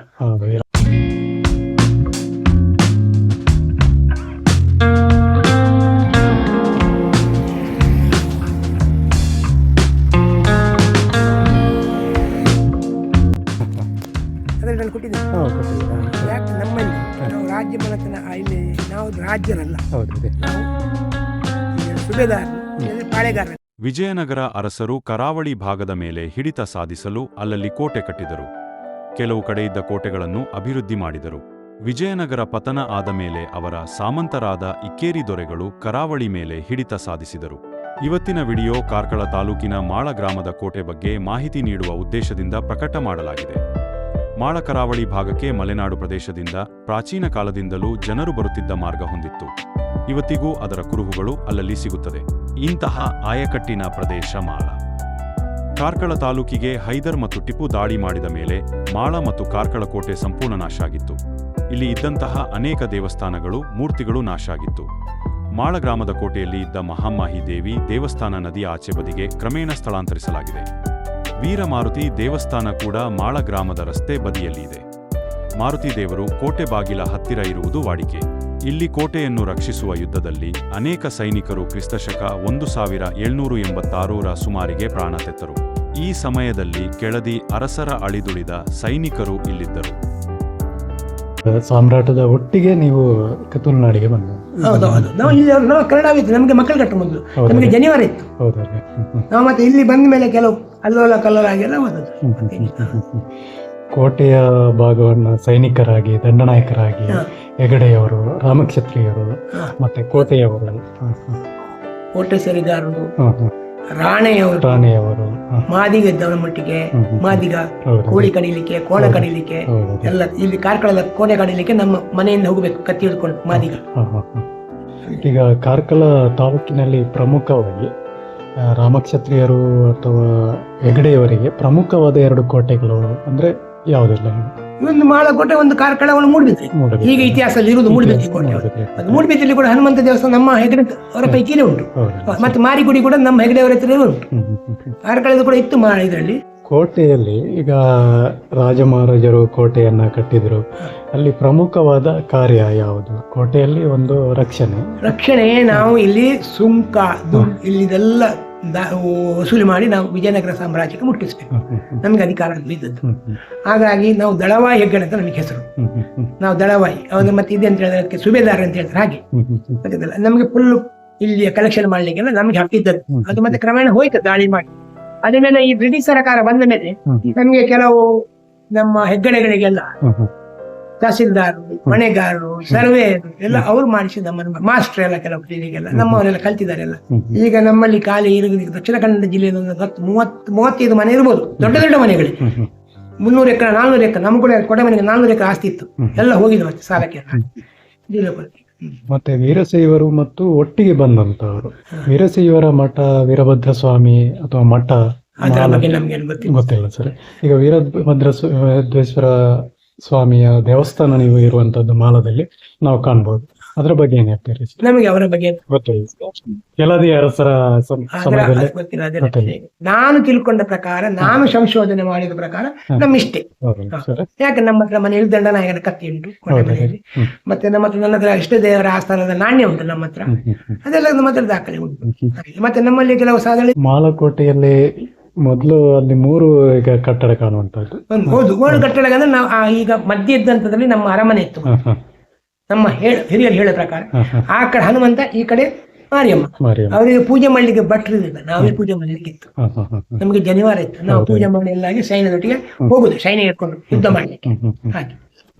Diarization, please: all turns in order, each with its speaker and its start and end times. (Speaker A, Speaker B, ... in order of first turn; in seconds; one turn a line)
Speaker A: 0.2-0.7
Speaker A: 13.6-13.9
Speaker B: 14.6-15.2
Speaker A: 15.3-16.3
Speaker B: 16.2-19.8
Speaker A: 19.9-20.4
Speaker B: 20.4-20.7
Speaker B: 21.8-23.6
Speaker C: 23.8-28.5
Speaker C: 29.2-43.6
Speaker C: 44.4-49.5
Speaker C: 50.1-54.8
Speaker C: 55.8-61.2
Speaker C: 61.7-64.9
Speaker C: 65.6-70.7
Speaker C: 71.4-74.8
Speaker C: 75.6-89.9
Speaker A: 91.5-95.4
Speaker B: 94.6-98.3
Speaker A: 97.4-97.8
Speaker A: 98.4-99.3
Speaker B: 99.3-103.0
Speaker A: 102.2-103.3
Speaker A: 103.9-111.4
Speaker B: 112.1-113.1
Speaker A: 113.2-113.5
Speaker B: 113.9-114.8
Speaker A: 114.6-115.6
Speaker B: 115.7-123.8
Speaker A: 117.0-118.3
Speaker A: 119.0-120.1
Speaker A: 123.5-124.5
Speaker A: 125.2-127.9
Speaker A: 128.6-134.5
Speaker B: 134.8-144.3
Speaker A: 136.7-139.2
Speaker A: 141.9-142.6
Speaker A: 144.3-145.0
Speaker B: 145.1-146.4
Speaker A: 146.7-155.2
Speaker B: 155.0-163.0
Speaker A: 161.5-162.0
Speaker A: 163.0-163.4
Speaker B: 163.7-165.7
Speaker A: 165.8-166.3
Speaker B: 166.4-169.2
Speaker A: 169.3-169.8
Speaker B: 169.8-174.7
Speaker A: 173.1-173.6
Speaker B: 175.2-178.2
Speaker B: 178.7-179.9
Speaker A: 180.0-180.3
Speaker B: 181.0-192.4
Speaker A: 185.9-186.2
Speaker A: 187.1-187.4
Speaker A: 191.6-191.8
Speaker A: 192.4-192.7
Speaker B: 193.2-197.5
Speaker B: 198.1-199.0
Speaker A: 199.1-205.9
Speaker B: 205.4-206.6
Speaker A: 206.5-214.8
Speaker B: 214.8-215.6
Speaker A: 215.7-219.5
Speaker B: 218.1-233.8
Speaker A: 223.0-224.3
Speaker A: 226.5-227.3
Speaker A: 230.3-230.8
Speaker A: 232.1-232.3
Speaker A: 233.8-238.9
Speaker B: 238.1-241.7
Speaker A: 241.7-242.0
Speaker B: 242.7-249.5
Speaker A: 244.2-244.4
Speaker A: 246.6-247.0
Speaker A: 249.6-250.2
Speaker B: 250.2-255.2
Speaker A: 251.1-251.5
Speaker A: 253.9-255.0